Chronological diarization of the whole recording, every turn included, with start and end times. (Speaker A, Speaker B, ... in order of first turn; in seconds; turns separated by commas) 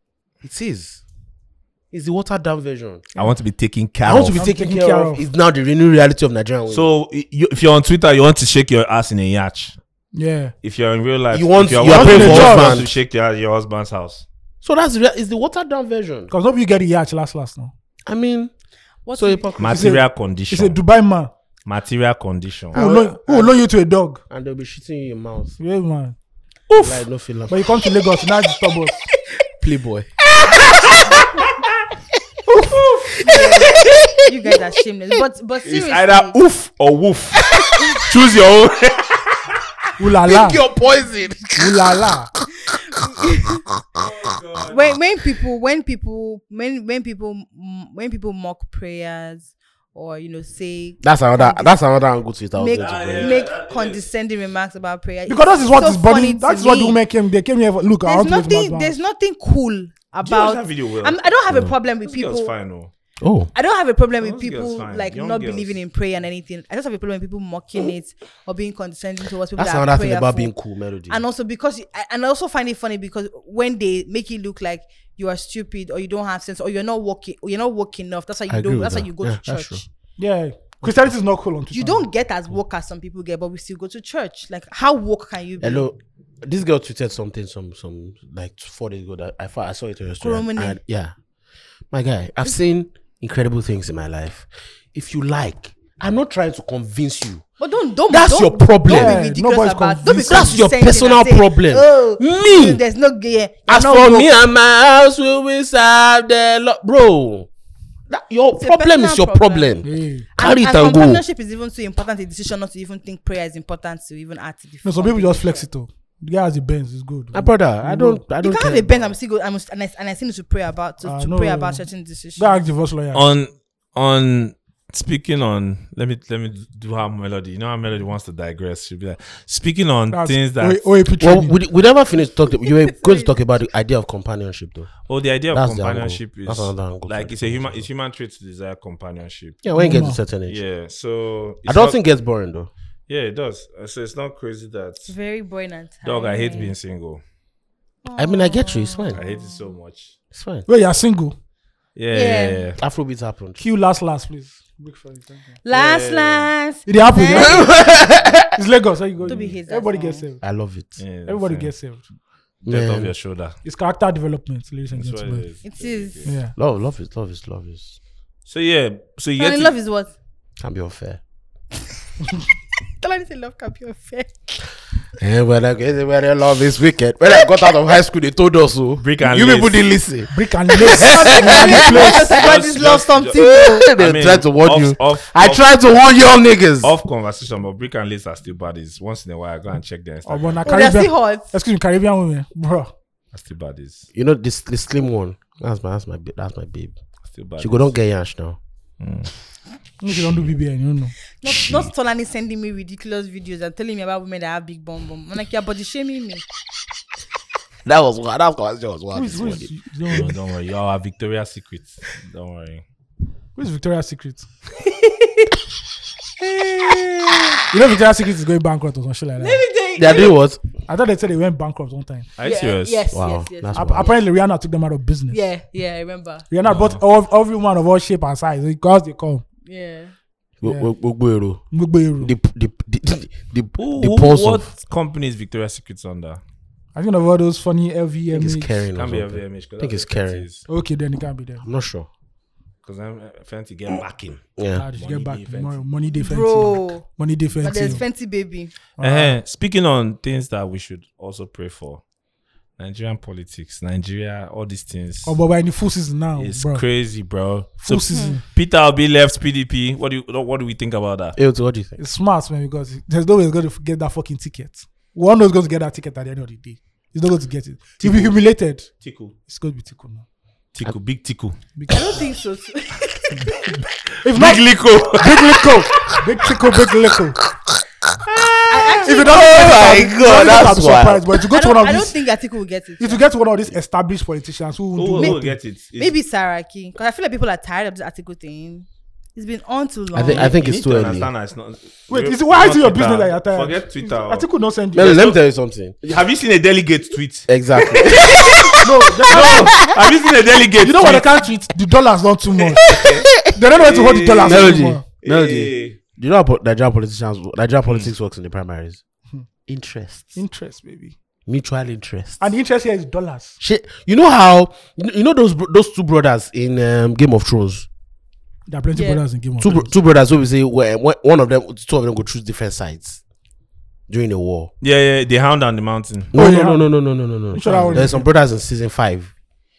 Speaker A: 0.4-1.0, Speaker A: 1.9-3.1, Speaker B: 3.1-4.4, Speaker A: 4.0-6.9, Speaker C: 4.3-5.2, Speaker B: 6.7-9.8, Speaker C: 10.1-10.5, Speaker B: 10.6-14.3, Speaker A: 11.3-12.9, Speaker C: 11.8-12.9, Speaker A: 14.6-16.3, Speaker C: 16.3-17.7, Speaker A: 18.1-18.5, Speaker D: 19.1-19.5, Speaker A: 19.1-20.0, Speaker B: 19.6-20.8, Speaker C: 19.7-21.3, Speaker B: 21.7-22.8, Speaker A: 22.7-23.6, Speaker C: 22.7-24.2, Speaker A: 24.3-25.6, Speaker C: 25.6-26.2, Speaker B: 26.7-27.0, Speaker A: 26.7-27.6, Speaker C: 27.5-29.1, Speaker A: 29.6-30.1, Speaker A: 33.1-34.6, Speaker D: 33.2-36.4, Speaker B: 35.6-39.6, Speaker C: 40.0-40.6, Speaker A: 40.2-42.1, Speaker C: 41.6-42.3, Speaker D: 42.9-43.6, Speaker B: 44.0-44.9, Speaker D: 44.7-51.8, Speaker A: 51.0-53.5, Speaker D: 52.5-57.0, Speaker B: 52.8-54.0, Speaker C: 55.3-59.0, Speaker D: 58.0-62.5, Speaker B: 60.2-62.9, Speaker A: 63.2-63.5, Speaker D: 63.5-70.5, Speaker B: 64.2-65.8, Speaker A: 69.6-71.2, Speaker D: 71.1-79.9, Speaker A: 78.5-79.8, Speaker C: 80.2-82.1, Speaker D: 81.7-85.9, Speaker A: 85.6-91.1, Speaker D: 90.2-90.8, Speaker A: 91.9-97.4, Speaker D: 97.6-104.3, Speaker A: 98.1-99.2, Speaker C: 98.9-100.6, Speaker A: 100.2-102.8, Speaker A: 103.7-107.5, Speaker A: 108.1-111.2, Speaker D: 108.6-109.8, Speaker C: 109.8-110.3, Speaker D: 110.4-115.7, Speaker C: 114.8-118.2, Speaker A: 117.3-119.1, Speaker D: 118.4-122.6, Speaker C: 121.0-123.3, Speaker B: 123.1-130.8, Speaker C: 130.1-131.6, Speaker A: 131.2-134.9, Speaker D: 132.9-133.3, Speaker B: 135.1-139.6, Speaker A: 135.5-137.9, Speaker A: 139.6-140.6, Speaker C: 139.8-140.2, Speaker B: 140.5-142.0, Speaker A: 141.7-142.7, Speaker B: 143.1-145.1, Speaker D: 145.1-146.8, Speaker B: 146.0-147.2, Speaker D: 148.1-149.6, Speaker A: 148.2-149.2, Speaker B: 149.1-150.2, Speaker A: 150.3-150.7, Speaker C: 150.7-151.3, Speaker B: 152.0-152.8, Speaker D: 152.1-152.7, Speaker A: 152.8-153.6, Speaker C: 153.6-155.6, Speaker D: 155.6-157.7, Speaker B: 155.7-156.5, Speaker C: 156.9-157.8, Speaker A: 157.3-158.5, Speaker C: 158.5-160.4, Speaker B: 159.2-159.6, Speaker D: 159.3-160.2, Speaker A: 160.4-161.0, Speaker B: 161.0-161.7, Speaker C: 161.3-162.0, Speaker B: 162.6-163.6, Speaker A: 162.7-163.1, Speaker C: 163.6-165.4, Speaker B: 164.9-166.3, Speaker D: 165.6-166.2, Speaker C: 166.2-166.5, Speaker A: 166.6-168.0, Speaker B: 168.5-169.8, Speaker D: 169.4-170.1, Speaker A: 170.6-171.2, Speaker D: 173.0-174.6, Speaker A: 175.2-182.5, Speaker B: 179.0-179.8, Speaker C: 180.3-182.3, Speaker D: 181.0-183.9, Speaker B: 182.2-185.7, Speaker A: 183.4-186.9, Speaker B: 186.8-190.7, Speaker C: 190.2-192.9, Speaker D: 190.7-191.5, Speaker B: 193.3-194.1, Speaker A: 194.1-197.0, Speaker B: 197.3-197.9, Speaker A: 197.6-198.6, Speaker B: 199.0-199.3, Speaker C: 200.0-201.2, Speaker B: 200.2-200.5, Speaker D: 201.4-206.4, Speaker A: 207.9-209.7, Speaker C: 209.1-210.3, Speaker B: 210.1-212.8, Speaker C: 213.6-214.5, Speaker D: 214.8-215.5, Speaker D: 216.4-217.6, Speaker C: 217.7-219.6, Speaker D: 219.4-220.4, Speaker A: 220.0-220.6, Speaker C: 220.9-222.3, Speaker B: 222.4-223.1, Speaker D: 222.4-224.2, Speaker A: 223.1-224.1, Speaker C: 223.7-225.4, Speaker D: 225.3-226.5, Speaker C: 226.5-229.4, Speaker B: 226.6-227.0, Speaker D: 229.7-230.1, Speaker A: 230.6-231.6, Speaker C: 231.7-232.3, Speaker A: 232.2-234.7, Speaker B: 233.8-236.4, Speaker C: 236.9-238.8, Speaker A: 238.3-240.5, Speaker B: 238.9-240.7, Speaker C: 240.7-241.7, Speaker A: 241.6-242.1, Speaker B: 242.8-245.8, Speaker A: 244.6-244.9, Speaker C: 244.8-248.0, Speaker D: 246.1-247.1, Speaker D: 247.6-248.7, Speaker C: 249.0-249.4, Speaker B: 249.0-252.0, Speaker B: 252.8-255.4, Speaker C: 255.3-256.8, Speaker B: 256.4-261.4, Speaker C: 257.8-258.4, Speaker D: 258.1-258.4, Speaker A: 261.4-262.0, Speaker C: 262.0-268.9, Speaker B: 268.0-268.4, Speaker B: 269.0-269.4, Speaker C: 269.4-270.2, Speaker B: 270.8-271.6, Speaker C: 271.8-272.1, Speaker D: 271.9-273.6, Speaker B: 273.7-276.2, Speaker C: 274.2-274.6, Speaker C: 275.1-277.4, Speaker A: 278.3-281.3, Speaker D: 278.7-279.8, Speaker C: 279.1-282.2, Speaker D: 281.5-283.2, Speaker C: 283.0-285.6, Speaker B: 285.0-286.1, Speaker D: 286.0-290.6, Speaker A: 290.1-291.3, Speaker B: 290.3-295.4, Speaker C: 292.1-295.2, Speaker A: 294.9-296.0, Speaker B: 296.0-301.3, Speaker A: 297.5-298.7, Speaker C: 298.8-299.9, Speaker C: 300.8-305.0, Speaker B: 302.6-306.0, Speaker A: 302.9-303.6, Speaker A: 304.4-309.0, Speaker A: 309.7-310.4, Speaker C: 310.4-311.1, Speaker A: 311.5-312.5, Speaker C: 312.4-313.6, Speaker A: 313.6-317.9, Speaker C: 318.7-319.9, Speaker D: 318.9-319.2, Speaker A: 319.6-323.2, Speaker A: 324.1-324.7, Speaker B: 324.8-326.3, Speaker A: 326.3-329.3, Speaker C: 326.4-326.9, Speaker C: 327.5-328.3